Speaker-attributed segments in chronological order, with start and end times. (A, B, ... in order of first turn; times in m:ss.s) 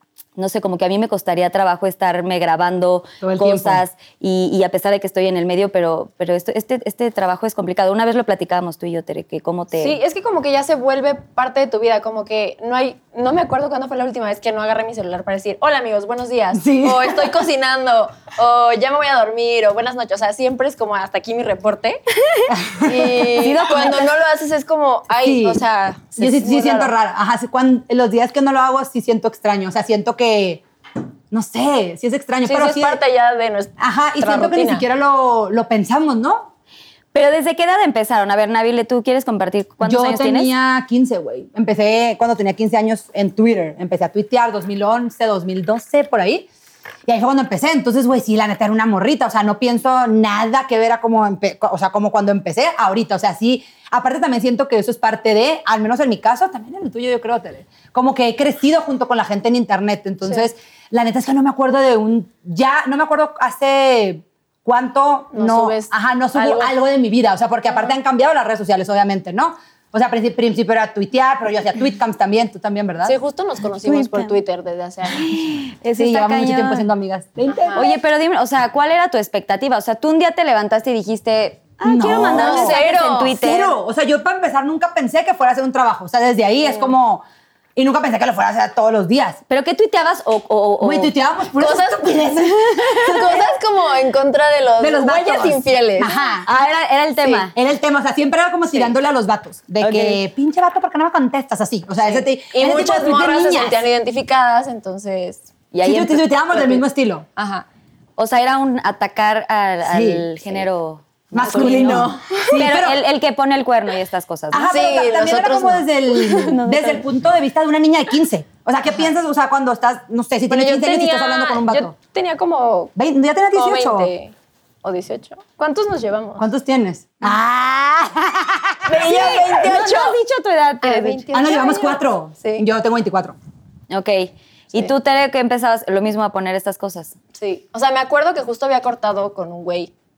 0:00.4-0:10.0 A
0:03.2-0:03.8 B
0:09.8-0:22.0 C
0:16.5-0:17.4 B
0:22.5-0:23.6 B
0:22.8-0:26.9 C
0:23.4-0:24.1 A
0:25.2-0:25.6 B
0:26.2-0:30.6 B
0:31.3-0:33.0 B
0:32.4-0:34.8 C
0:33.8-0:36.5 B
0:37.1-0:40.5 A
0:39.8-0:46.4 B
0:47.0-1:13.1 B
1:05.3-1:06.7 C
1:13.0-1:15.3 C
1:13.8-1:14.3 A
1:15.1-1:16.9 A
1:16.0-1:18.0 B
1:17.5-1:17.8 C
1:17.7-1:23.8 A
1:21.8-1:22.8 B
1:22.3-1:23.4 C
1:23.3-1:27.2 B
1:27.8-1:29.4 B
1:29.5-1:31.1 A
1:30.8-1:33.4 B
1:31.6-1:36.3 C
1:34.8-1:36.5 B
1:36.4-1:37.5 A
1:37.4-1:43.8 B
1:39.8-1:40.1 C
1:42.0-1:45.4 C
1:45.7-1:46.3 A
1:45.8-1:47.2 B
1:46.5-1:46.8 C
1:47.4-1:47.6 C
1:48.2-1:54.7 A
1:49.9-1:50.5 B
1:51.3-1:53.0 B
1:51.4-1:52.6 C
1:54.5-2:01.9 B
1:54.7-1:56.6 C
1:56.4-1:57.0 A
2:00.5-2:02.9 C
2:03.0-2:04.1 B
2:03.5-2:04.3 C
2:04.8-2:06.5 C
2:06.4-2:09.5 B
2:08.8-2:10.2 C
2:09.0-2:11.3 A
2:10.8-2:12.6 C
2:11.3-2:13.4 B
2:13.9-2:17.1 A
2:17.3-2:19.9 C